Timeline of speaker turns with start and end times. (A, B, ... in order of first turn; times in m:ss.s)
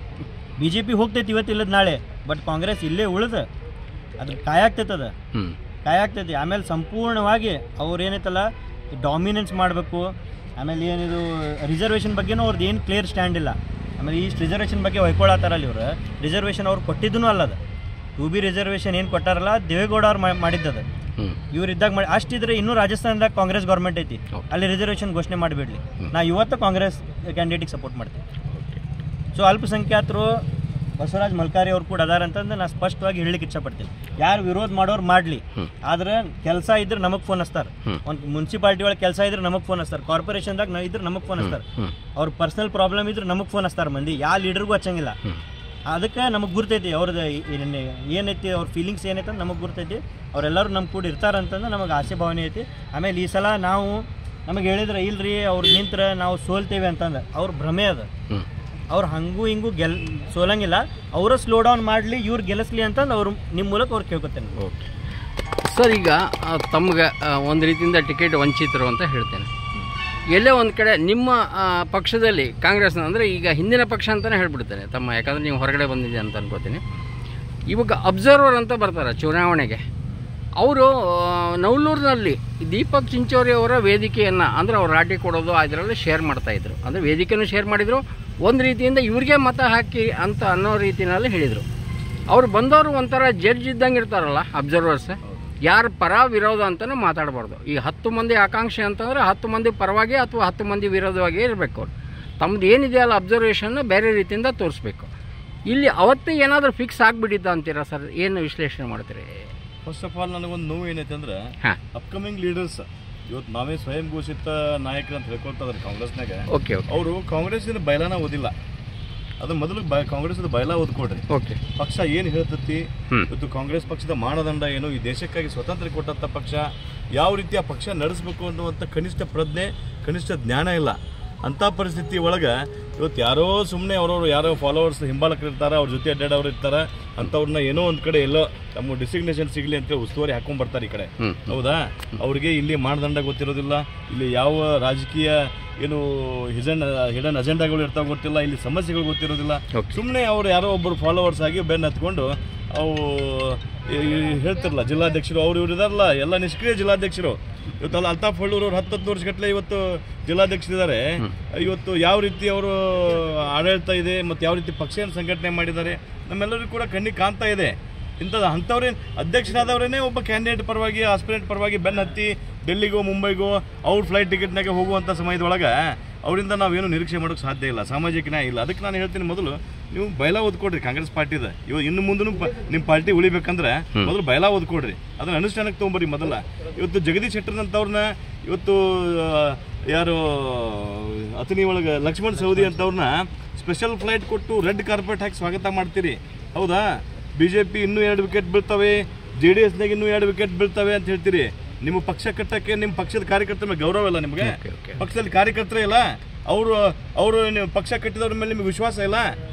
0:00.6-0:03.4 A
0:04.2-0:05.1 A
0:05.8-0:08.4 A
0:09.0-0:17.6 A
0:18.2-0:20.8 A
0:21.5-0:28.2 A
0:28.5-0:28.8 B
0:29.3-0:30.4 A
0:31.0-0:41.6 A
0:41.4-0:41.9 B
0:42.2-0:45.2 A
0:45.9-0:58.1 A
0:58.9-1:04.5 A
1:04.6-1:04.9 B
1:05.6-1:09.5 B
1:10.3-1:16.8 B
1:17.7-1:19.8 B
1:20.6-1:31.6 B
1:32.3-1:41.9 B
1:42.4-1:45.1 B
1:45.7-1:49.5 B
1:49.8-1:58.5 C
1:56.5-1:56.9 B
1:59.4-3:29.3 C
2:01.3-2:01.6 B
2:21.2-2:21.5 B
2:29.7-2:30.0 B
3:24.4-3:25.0 B